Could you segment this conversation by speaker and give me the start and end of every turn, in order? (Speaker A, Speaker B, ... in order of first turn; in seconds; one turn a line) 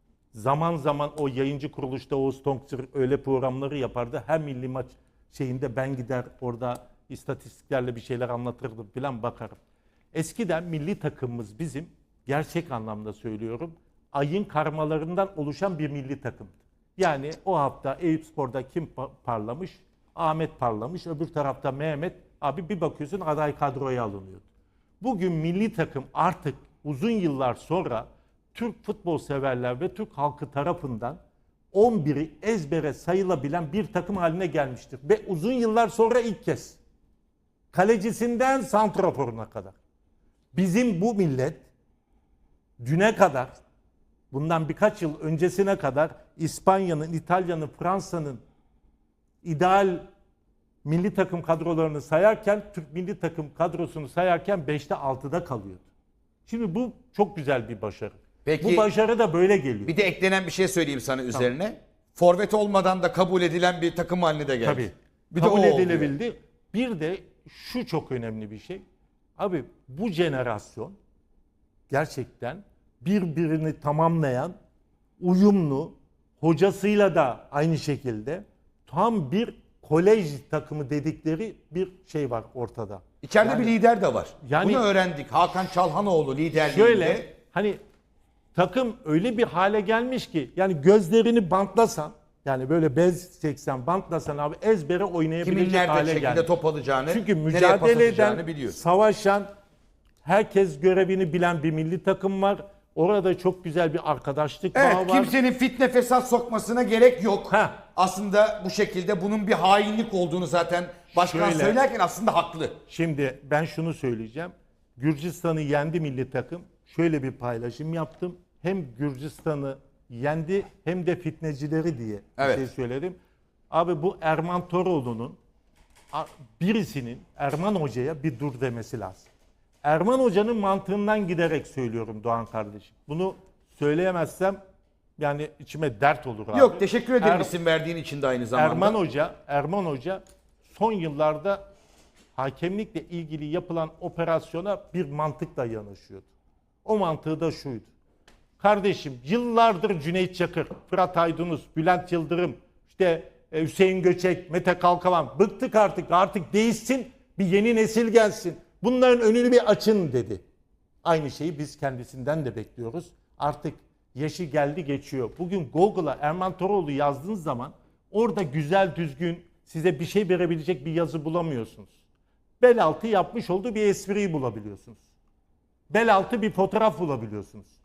Speaker A: 0.3-9.6
Speaker A: 10.1-24.4
Speaker A: 25.0-31.2
Speaker A: 31.7-36.8
Speaker A: 37.7-39.8
Speaker A: 40.5-41.6
Speaker A: 42.8-43.6
Speaker A: 44.3-48.4
Speaker A: 49.4-50.0
Speaker A: 50.9-55.8
Speaker A: 56.5-59.9
Speaker B: 58.5-58.9
Speaker B: 59.9-66.1
Speaker A: 64.6-68.8
Speaker A: 69.4-71.0
Speaker A: 71.9-74.5
Speaker A: 75.2-83.7
Speaker B: 83.2-87.3
Speaker A: 84.4-84.8
Speaker A: 86.6-87.8
Speaker A: 88.5-96.5
Speaker B: 95.4-98.8
Speaker A: 97.1-99.5
Speaker A: 100.2-105.3
Speaker B: 104.7-112.8
Speaker A: 107.5-107.8
Speaker A: 111.1-111.8
Speaker A: 112.9-123.2
Speaker B: 122.4-122.7
Speaker A: 123.7-125.4
Speaker A: 126.1-129.3
Speaker A: 129.8-134.6
Speaker A: 135.2-137.5
Speaker B: 136.5-139.0
Speaker A: 138.6-141.6
Speaker A: 142.4-146.3
Speaker A: 146.8-147.9
Speaker A: 148.6-160.4
Speaker A: 161.0-171.9
Speaker A: 172.6-175.0
Speaker A: 175.9-177.7